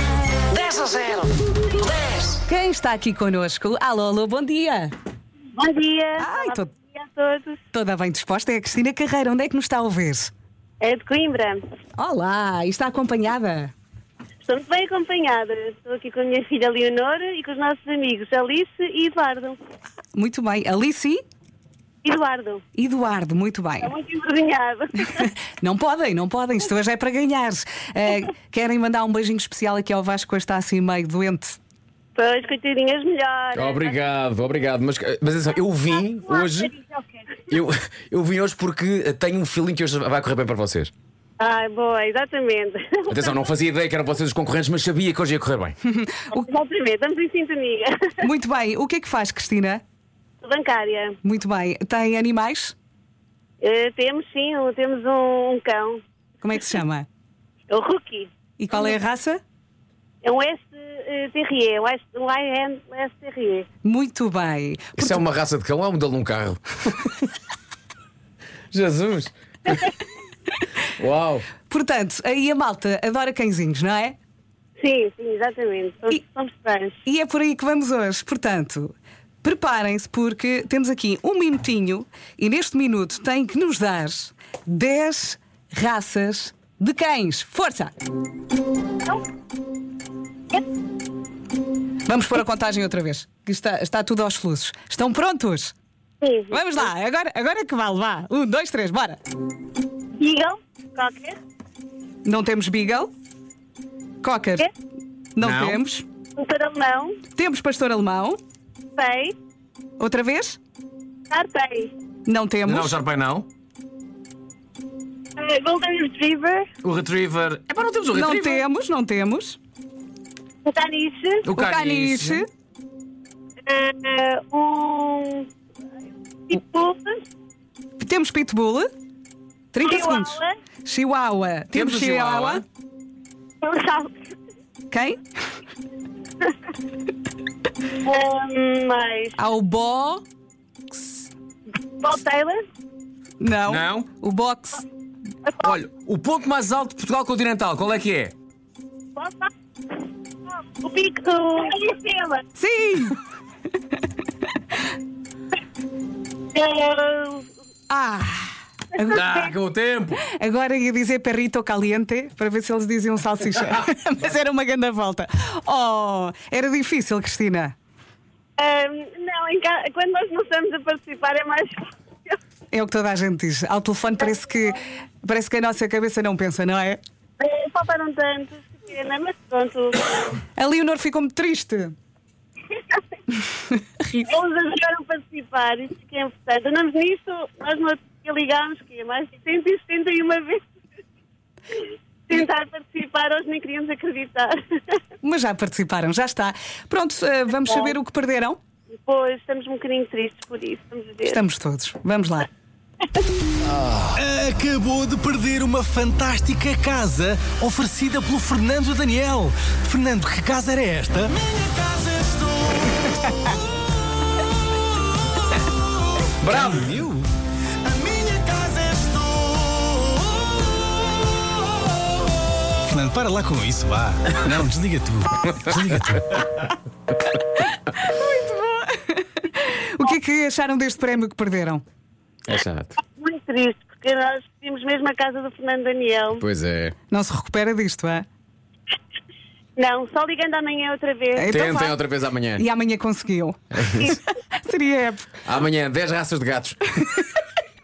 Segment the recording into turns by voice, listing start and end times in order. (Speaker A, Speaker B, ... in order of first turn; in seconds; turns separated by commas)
Speaker A: 0.4-2.3, Speaker B: 2.4-4.9, Speaker C: 5.6-7.6, Speaker B: 6.2-6.7, Speaker B: 7.7-10.3, Speaker C: 10.8-11.6, Speaker B: 12.0-13.7, Speaker C: 14.4-19.6, Speaker B: 20.1-21.2, Speaker C: 22.0-22.6, Speaker B: 22.7-23.9, Speaker C: 23.8-25.3, Speaker B: 25.5-31.6, Speaker C: 32.1-34.0, Speaker D: 33.5-36.7, Speaker C: 36.2-37.2, Speaker D: 37.5-40.9, Speaker C: 41.4-43.5, Speaker D: 43.1-45.7, Speaker B: 45.8-46.4, Speaker C: 46.3-48.1, Speaker B: 48.2-49.8, Speaker C: 50.4-51.2, Speaker B: 51.2-52.7, Speaker C: 53.6-56.0, Speaker B: 56.4-57.1, Speaker C: 57.7-58.9, Speaker B: 58.6-59.4, Speaker C: 60.2-63.6, Speaker B: 63.8-65.2, Speaker D: 65.0-67.2, Speaker D: 68.7-69.3, Speaker D: 71.0-71.5, Speaker B: 71.7-74.2, Speaker C: 74.8-77.0, Speaker B: 77.0-87.9, Speaker B: 92.0-95.7, Speaker C: 96.2-96.8, Speaker B: 96.5-99.2, Speaker C: 100.2-101.4, Speaker B: 102.2-103.1, Speaker B: 104.2-104.7, Speaker B: 105.3-106.0, Speaker D: 105.4-105.8, Speaker C: 106.4-107.2, Speaker B: 107.3-108.4, Speaker C: 109.0-109.3, Speaker B: 110.0-110.6, Speaker C: 111.3-111.9, Speaker B: 112.2-113.0, Speaker D: 112.6-113.5, Speaker C: 115.4-116.7, Speaker D: 116.8-118.6, Speaker B: 118.1-119.6, Speaker C: 120.7-121.5, Speaker D: 121.4-122.4, Speaker B: 121.5-122.5, Speaker C: 123.7-125.5, Speaker C: 126.5-127.2, Speaker B: 128.0-128.9, Speaker B: 129.7-132.6, Speaker C: 129.8-130.5, Speaker D: 131.7-132.6, Speaker C: 133.6-134.1, Speaker B: 134.9-135.2, Speaker C: 138.0-139.3, Speaker B: 139.4-140.2, Speaker B: 140.9-141.2, Speaker C: 142.0-142.6, Speaker B: 143.4-144.8, Speaker D: 143.7-144.1, Speaker D: 145.6-148.3, Speaker C: 149.2-149.5, Speaker C: 150.8-152.4, Speaker B: 152.6-153.2, Speaker C: 156.5-157.5, Speaker B: 157.9-159.2, Speaker C: 159.0-159.5, Speaker D: 159.1-160.2, Speaker B: 160.2-167.7, Speaker C: 168.6-172.3, Speaker B: 172.7-177.0, Speaker C: 177.4-180.1, Speaker B: 180.6-181.9, Speaker C: 184.2-190.6, Speaker C: 191.7-195.0, Speaker B: 195.2-198.6, Speaker C: 197.7-197.9, Speaker C: 199.0-201.4, Speaker B: 201.2-202.5, Speaker E: 204.1-213.1, Speaker D: 216.4-217.2, Speaker E: 216.5-217.2, Speaker E: 217.9-220.1, Speaker E: 222.9-226.7, Speaker B: 227.9-231.8, Speaker D: 232.5-232.9, Speaker C: 233.0-236.4, Speaker D: 236.4-236.9, Speaker B: 237.1-238.2, Speaker C: 239.8-241.6, Speaker B: 241.4-241.9, Speaker D: 241.5-242.6, Speaker B: 242.6-245.3, Speaker D: 243.8-244.1, Speaker D: 245.4-246.8, Speaker B: 247.0-247.4